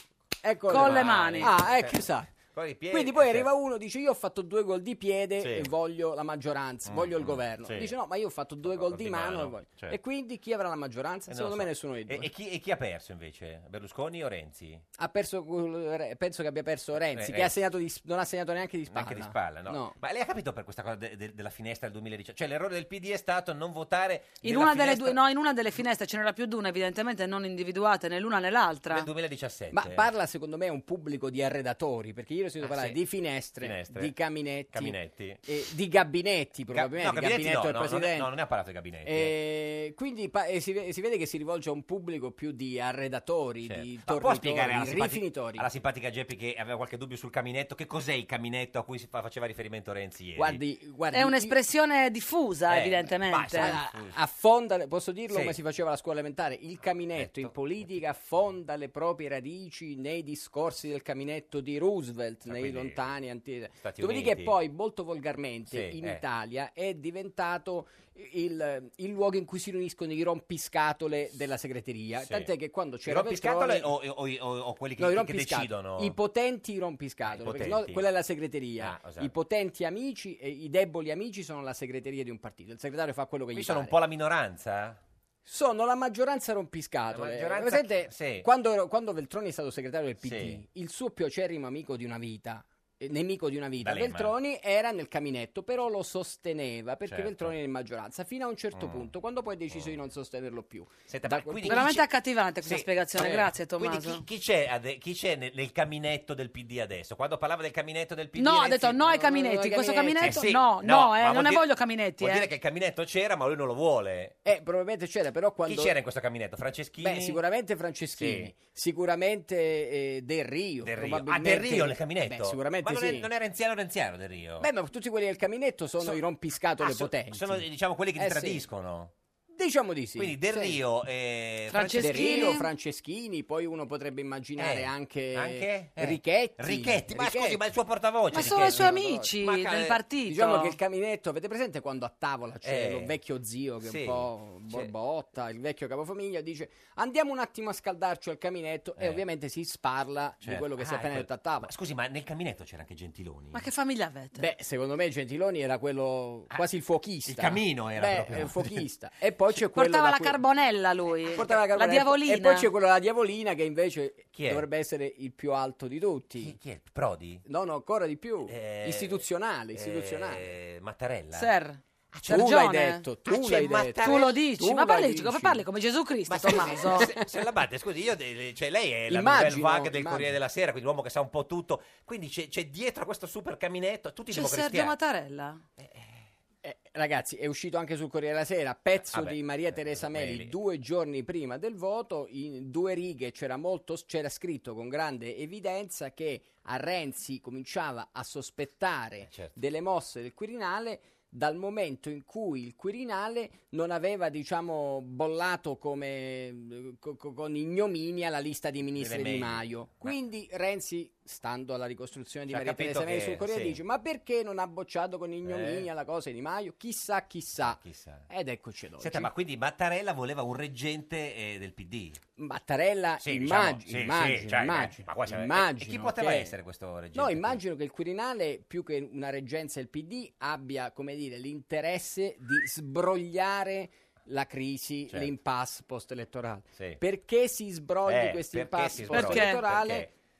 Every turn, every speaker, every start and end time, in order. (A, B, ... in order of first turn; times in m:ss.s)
0:00.4-0:02.3 A
0:00.7-0:01.5 B
0:00.7-0:03.5 C
0:02.9-0:12.3 A
0:05.4-0:05.7 C
0:06.8-0:07.9 C
0:08.6-0:10.0 C
0:11.3-0:14.8 C
0:15.0-0:20.0 A
0:17.1-0:17.5 C
0:18.9-0:25.2 C
0:24.4-0:29.1 B
0:28.9-0:30.1 C
0:29.7-0:38.3 A
0:32.6-0:33.0 C
0:33.6-0:34.1 C
0:34.7-0:35.4 C
0:36.7-0:39.3 C
0:39.0-0:45.7 A
0:43.6-0:50.6 C
0:50.4-0:51.6 A
0:51.1-0:53.8 B
0:52.7-0:54.2 C
0:53.5-1:13.9 A
0:55.3-0:55.6 C
0:57.1-0:57.5 C
1:02.4-1:03.0 C
1:03.8-1:04.6 C
1:05.7-1:06.2 C
1:12.2-1:12.5 C
1:13.0-1:16.1 C
1:15.0-1:24.0 A
1:17.2-1:18.0 C
1:18.8-1:19.3 C
1:23.5-1:25.0 C
1:25.4-1:42.0 A
1:27.1-1:28.5 C
1:30.2-1:30.6 C
1:33.8-1:34.3 C
1:37.1-1:37.5 C
1:38.7-1:39.1 C
1:39.7-1:40.0 C
1:41.1-1:42.0 C
1:41.6-1:44.2 B
1:42.6-1:49.1 C
1:48.4-1:52.5 B
1:49.0-1:50.4 A
1:50.2-1:51.6 C
1:52.2-1:54.4 C
1:54.4-1:55.9 A
1:55.6-1:57.4 C
1:57.0-2:03.3 A
1:58.2-1:58.5 C
2:00.8-2:04.7 C
2:04.6-2:08.6 A
2:06.8-2:09.1 C
2:09.5-2:10.8 A
2:10.2-2:12.6 C
2:11.7-2:12.7 B
2:12.0-2:17.6 A
2:14.6-2:20.0 C
2:18.3-2:20.8 B
2:18.3-2:19.2 A
2:20.3-2:31.7 A
2:22.6-2:23.2 C
2:23.8-2:24.9 C
2:29.0-2:29.2 C
2:30.4-2:33.6 C
2:33.5-2:34.5 B
2:34.4-2:40.4 A
2:37.2-2:38.8 C
2:39.6-2:42.7 B
2:41.3-2:46.6 A
2:44.3-2:44.7 C
2:46.4-2:47.4 C
2:47.4-2:50.5 A
2:48.5-2:51.5 C
2:51.3-2:53.0 B
2:52.1-2:52.5 C
2:52.2-2:55.6 A
2:53.2-2:54.4 C
2:54.0-2:57.1 B
2:56.3-3:04.9 C
2:56.4-2:57.3 A
2:59.1-3:00.4 A
3:04.3-3:05.6 B
3:05.8-3:06.1 C
3:06.6-3:39.3 A
3:09.0-3:10.5 C
3:19.2-3:19.6 C
3:29.0-3:30.1 C
3:32.5-3:33.8 C
3:35.4-3:35.9 C
3:37.6-3:38.3 C
3:39.0-3:42.2 C
3:42.4-3:46.5 A
3:43.2-3:47.6 C
3:47.1-4:00.1 A
3:58.0-4:00.1 C
3:59.1-3:59.6 B